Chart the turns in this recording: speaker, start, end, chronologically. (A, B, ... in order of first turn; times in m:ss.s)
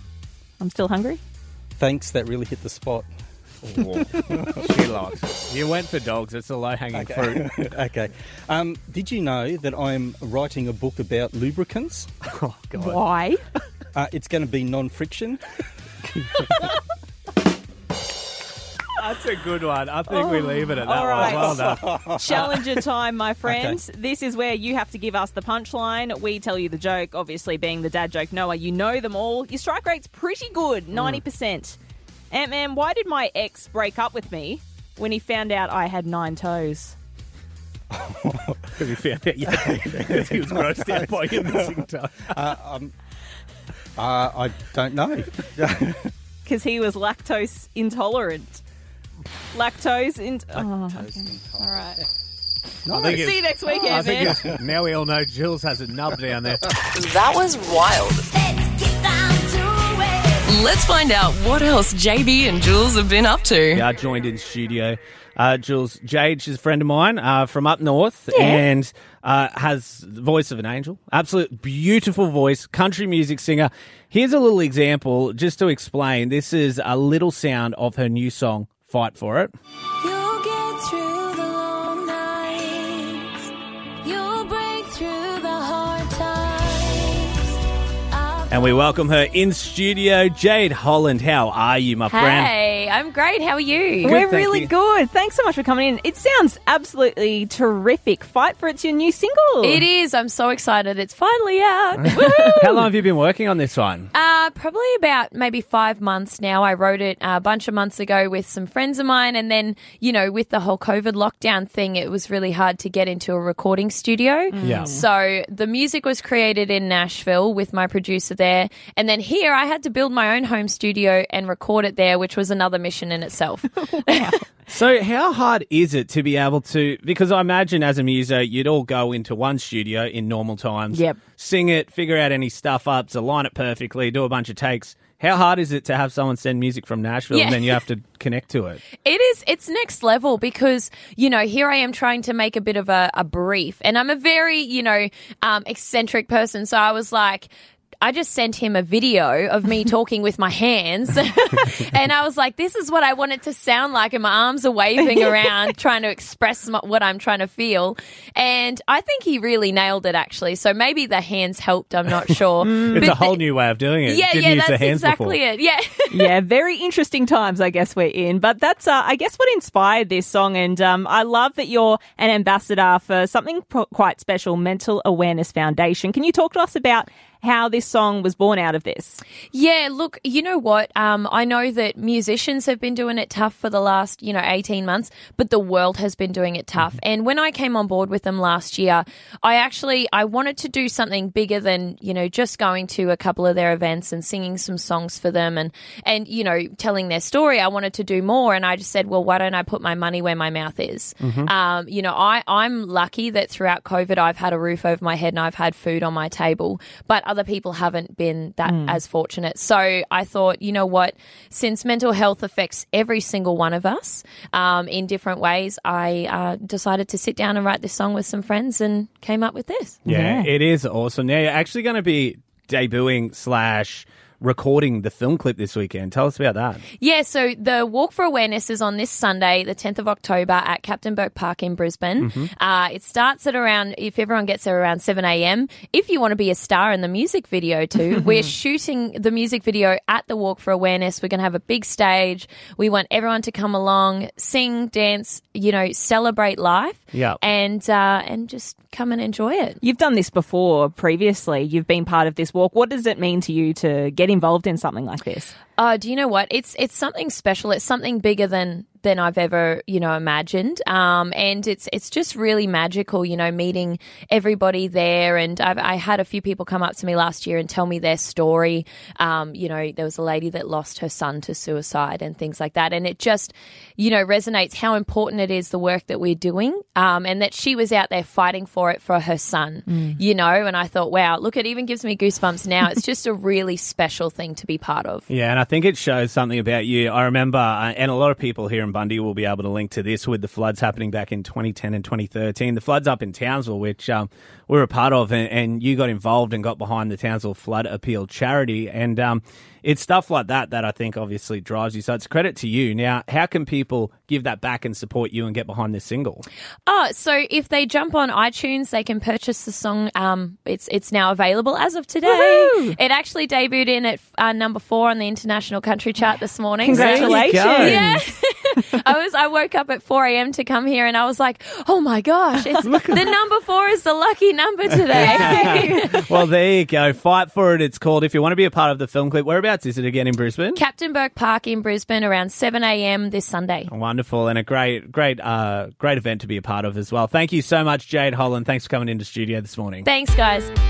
0:00.6-0:01.2 A
0:01.8-0:03.1 B
0:03.7-0:07.4 C
0:04.1-0:04.7 B
0:06.9-0:12.1 B
0:12.3-0:13.0 C
0:12.8-0:13.4 A
0:13.9-0:15.4 B
0:19.0-0:21.8 C
0:20.1-0:31.8 A
0:21.1-0:22.6 B
0:23.4-0:23.8 B
0:32.3-0:37.0 A
0:37.9-0:38.8 B
0:38.8-0:42.3 C
0:39.5-0:42.9 B
0:44.0-0:46.1 B
0:46.4-0:48.6 A
0:49.5-0:52.0 A
0:50.5-0:52.0 B
0:52.8-0:53.3 B
0:52.9-0:54.4 A
0:53.8-0:56.6 C
0:54.1-0:54.4 B
0:56.9-0:58.4 D
1:00.4-1:03.8 D
1:03.8-1:19.5 C
1:08.3-1:08.7 A
1:20.0-1:23.4 E
1:24.0-1:27.5 E
1:28.1-1:28.9 E
1:28.5-1:32.5 C
1:32.1-1:34.2 E
1:34.0-1:39.8 A
1:34.1-1:34.7 C
1:39.6-1:42.6 E
1:42.1-1:42.8 A
1:42.6-1:44.1 C
1:44.1-2:04.3 E
1:54.5-1:55.0 A
1:54.6-1:55.0 C
2:03.9-2:04.4 A
2:04.7-2:18.8 C
2:10.9-2:11.2 A
2:17.3-2:17.8 E
2:19.0-2:43.4 E
2:42.6-2:45.4 C
2:42.7-2:43.2 A
2:44.0-2:46.3 E
2:46.1-2:59.2 A
2:59.5-3:40.0 E
3:21.2-3:21.5 C
3:28.6-3:29.0 A
3:40.0-3:40.5 A
3:40.1-3:46.8 C
3:47.0-4:09.8 E
3:52.2-3:52.5 C
4:07.1-4:07.4 C
4:09.8-4:15.5 A
4:15.8-4:45.3 E
4:39.9-4:40.2 A
4:45.3-5:06.4 C
5:06.8-5:26.2 E
5:12.2-5:13.0 A
5:16.8-5:18.2 A
5:16.9-5:18.0 C
5:22.8-5:23.3 C
5:24.9-5:30.8 C
5:25.1-5:26.3 A
5:30.7-5:33.9 E
5:33.9-5:40.1 C
5:40.0-5:40.7 E